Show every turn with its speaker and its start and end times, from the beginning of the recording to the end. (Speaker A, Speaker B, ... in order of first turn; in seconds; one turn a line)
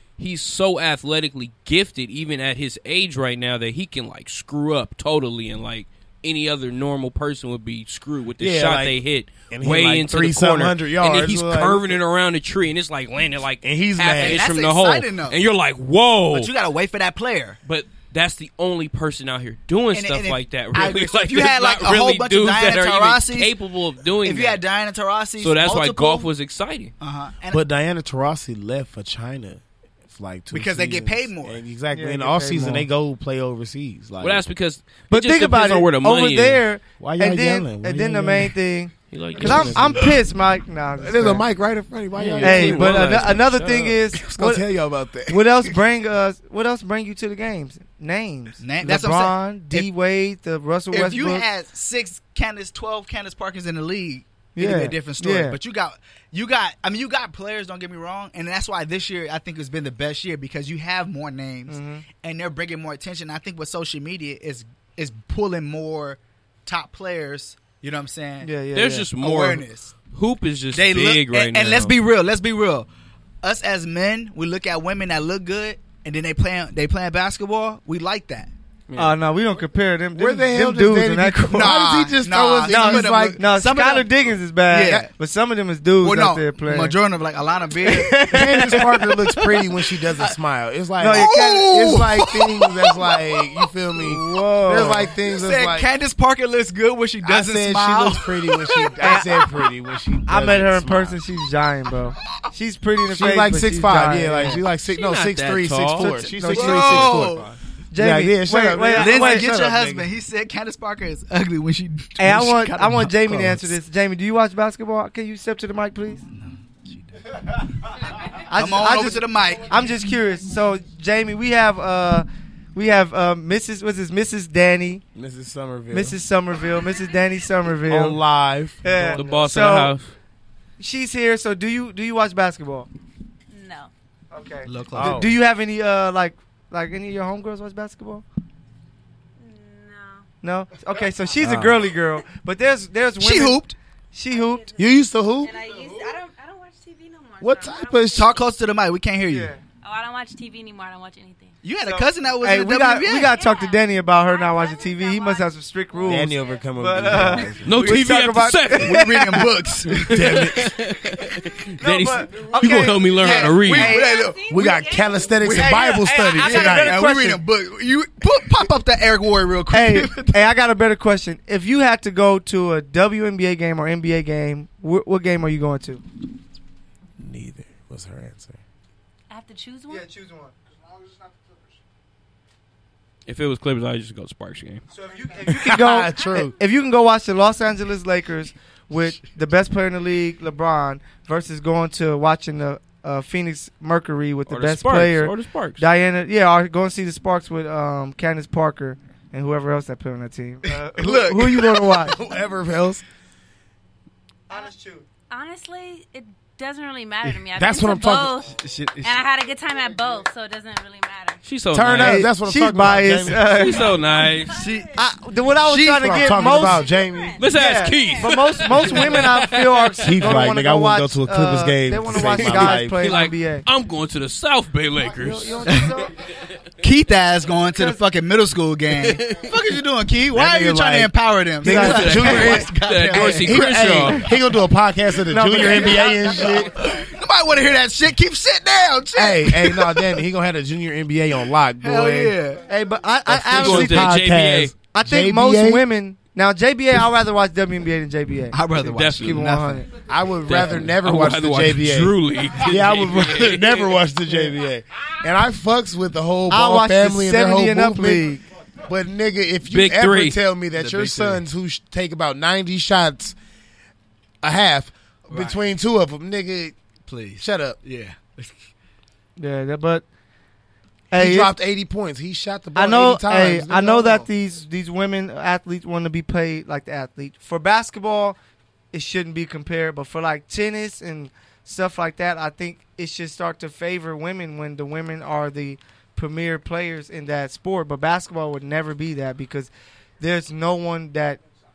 Speaker A: 0.2-16.5
Speaker B: 8.4-11.9
Speaker B: 13.6-14.5
Speaker C: 14.2-15.4
Speaker C: 16.3-17.6
Speaker A: 17.7-24.6
Speaker C: 19.9-23.5
Speaker C: 24.2-26.3
Speaker A: 25.4-26.9
Speaker C: 27.0-27.6
Speaker B: 27.5-34.4
Speaker C: 30.5-31.6
Speaker D: 31.9-32.9
Speaker A: 34.2-36.6
Speaker D: 35.1-41.5
Speaker B: 37.0-38.5
Speaker A: 39.1-40.0
Speaker B: 39.3-40.2
Speaker B: 41.0-43.4
Speaker A: 42.1-44.0
Speaker D: 42.4-44.7
Speaker B: 44.1-45.8
Speaker D: 45.3-51.5
Speaker C: 48.6-49.9
Speaker C: 50.9-68.5
Speaker D: 54.5-55.6
Speaker D: 61.7-62.0
Speaker D: 68.4-69.1
Speaker A: 68.8-72.0
Speaker C: 69.2-69.9
Speaker C: 70.7-72.9
Speaker C: 73.4-78.5
Speaker A: 78.9-79.1
Speaker D: 79.0-81.8
Speaker B: 80.2-83.4
Speaker C: 81.5-84.1
Speaker D: 82.7-87.0
Speaker C: 84.7-85.1
Speaker C: 86.0-90.3
Speaker D: 87.8-89.1
Speaker B: 88.3-95.9
Speaker D: 91.0-91.7
Speaker C: 91.1-93.7
Speaker D: 94.0-95.1
Speaker C: 95.2-99.6
Speaker B: 97.2-101.2
Speaker D: 99.0-99.3
Speaker D: 100.3-104.6
Speaker B: 103.1-110.1
Speaker A: 104.9-106.1
Speaker D: 106.0-107.2
Speaker C: 106.5-107.5
Speaker A: 106.9-107.5
Speaker D: 107.9-109.5
Speaker C: 109.0-113.7
Speaker D: 112.2-116.2
Speaker C: 116.4-117.1
Speaker D: 118.3-125.0
Speaker C: 118.5-119.7
Speaker B: 125.2-126.2
Speaker D: 125.9-128.2
Speaker B: 127.9-129.5
Speaker D: 128.8-129.9
Speaker A: 129.1-130.1
Speaker D: 130.8-132.9
Speaker E: 133.5-133.9
Speaker D: 134.3-138.2
Speaker C: 134.7-135.3
Speaker B: 134.9-135.3
Speaker E: 139.4-140.3
Speaker D: 140.4-143.6
Speaker B: 141.4-141.8
Speaker C: 143.2-143.8
Speaker D: 144.1-144.7
Speaker E: 144.3-148.4
Speaker B: 144.8-145.5
Speaker B: 147.4-148.3
Speaker C: 148.1-149.5
Speaker D: 149.3-149.6
Speaker E: 149.8-151.6
Speaker C: 151.6-153.4
Speaker D: 151.8-159.5
Speaker E: 153.2-156.6
Speaker B: 156.1-157.9
Speaker A: 157.6-159.1
Speaker C: 158.7-160.4
Speaker A: 160.0-164.0
Speaker B: 160.1-160.8
Speaker D: 161.8-164.1
Speaker C: 163.1-164.7
Speaker E: 163.7-166.6
Speaker B: 164.5-167.1
Speaker C: 165.4-170.5
Speaker D: 165.6-167.4
Speaker D: 169.7-176.0
Speaker B: 177.2-178.6
Speaker E: 179.3-180.1
Speaker D: 179.9-180.5
Speaker A: 183.3-184.8
Speaker D: 184.9-202.2
Speaker B: 185.5-186.5
Speaker A: 194.5-195.8
Speaker C: 200.7-201.8
Speaker B: 201.3-203.0
Speaker D: 204.5-205.1
Speaker E: 205.3-211.4
Speaker B: 207.6-208.4
Speaker C: 208.6-209.2
Speaker A: 211.4-212.3
Speaker B: 211.7-213.6
Speaker D: 212.0-213.9
Speaker A: 213.5-214.7
Speaker E: 213.8-214.9
Speaker C: 214.5-215.0
Speaker D: 214.9-216.9
Speaker C: 215.6-216.7
Speaker B: 216.0-217.4
Speaker E: 216.6-219.3
Speaker A: 217.4-220.4
Speaker D: 217.5-223.7
Speaker B: 220.0-223.2
Speaker A: 222.3-225.7
Speaker D: 225.2-226.1
Speaker C: 225.7-226.0
Speaker C: 226.8-233.8
Speaker A: 228.9-229.5
Speaker B: 230.3-236.7
Speaker D: 231.6-232.5
Speaker A: 231.7-234.3
Speaker D: 235.3-236.7
Speaker C: 235.6-240.2
Speaker B: 239.2-242.4
Speaker C: 241.8-242.6
Speaker D: 242.7-244.3
Speaker B: 243.3-245.8
Speaker A: 243.5-244.7
Speaker D: 244.9-248.6
Speaker C: 248.5-249.9
Speaker A: 248.8-249.5
Speaker D: 249.2-249.9
Speaker B: 250.1-258.3
Speaker A: 250.5-254.0
Speaker D: 256.5-258.4
Speaker B: 258.9-263.4
Speaker A: 259.7-260.4
Speaker C: 260.7-261.4
Speaker B: 264.4-266.8
Speaker C: 265.3-265.6
Speaker C: 267.1-268.6
Speaker B: 267.4-267.8
Speaker D: 269.4-270.1
Speaker D: 271.1-271.5
Speaker B: 271.1-274.3
Speaker D: 272.8-278.4
Speaker D: 278.9-291.4